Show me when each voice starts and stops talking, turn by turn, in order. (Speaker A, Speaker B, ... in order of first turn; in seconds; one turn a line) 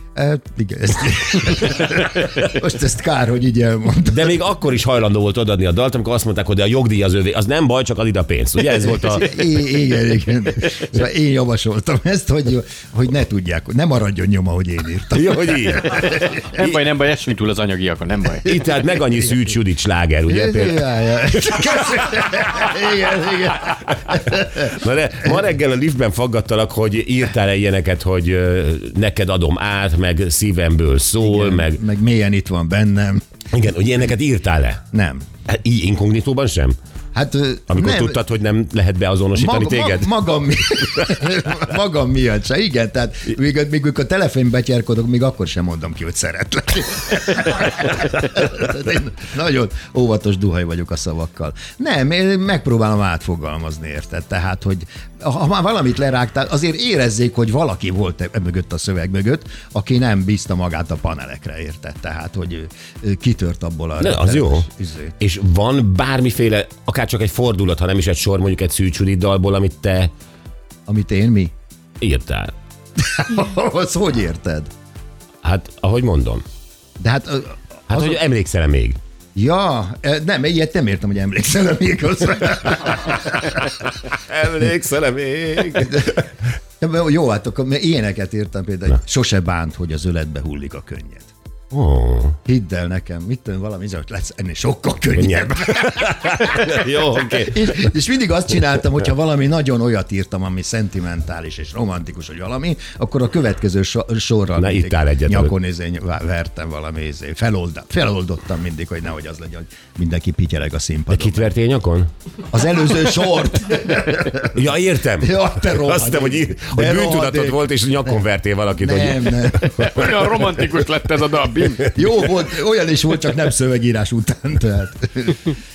Speaker A: 0.1-4.4
Speaker B: 4.1-9.5
Speaker A: 8.7-16.4
Speaker B: 15.1-16.8
Speaker C: 16.4-18.6
Speaker B: 18.4-22.7
Speaker A: 20.3-24.7
Speaker B: 24.1-31.8
Speaker A: 31.2-33.2
Speaker B: 33.5-34.8
Speaker A: 34.9-35.3
Speaker B: 35.5-36.8
Speaker A: 37.1-38.2
Speaker B: 37.7-40.1
Speaker A: 39.4-65.1
Speaker B: 40.6-41.1
Speaker B: 64.0-64.7
Speaker B: 65.2-70.1
Speaker A: 70.9-71.5
Speaker B: 72.0-72.5
Speaker A: 73.0-74.7
Speaker B: 75.4-76.4
Speaker A: 77.0-78.2
Speaker B: 77.9-79.0
Speaker A: 79.3-83.8
Speaker B: 84.1-86.2
Speaker A: 85.5-86.3
Speaker A: 86.8-91.3
Speaker B: 91.7-92.4
Speaker A: 92.5-111.5
Speaker B: 95.2-97.8
Speaker B: 104.6-105.5
Speaker B: 111.1-112.1
Speaker A: 112.5-114.6
Speaker B: 114.5-120.2
Speaker A: 115.2-117.7
Speaker A: 118.8-120.0
Speaker C: 119.8-122.0
Speaker A: 121.9-125.6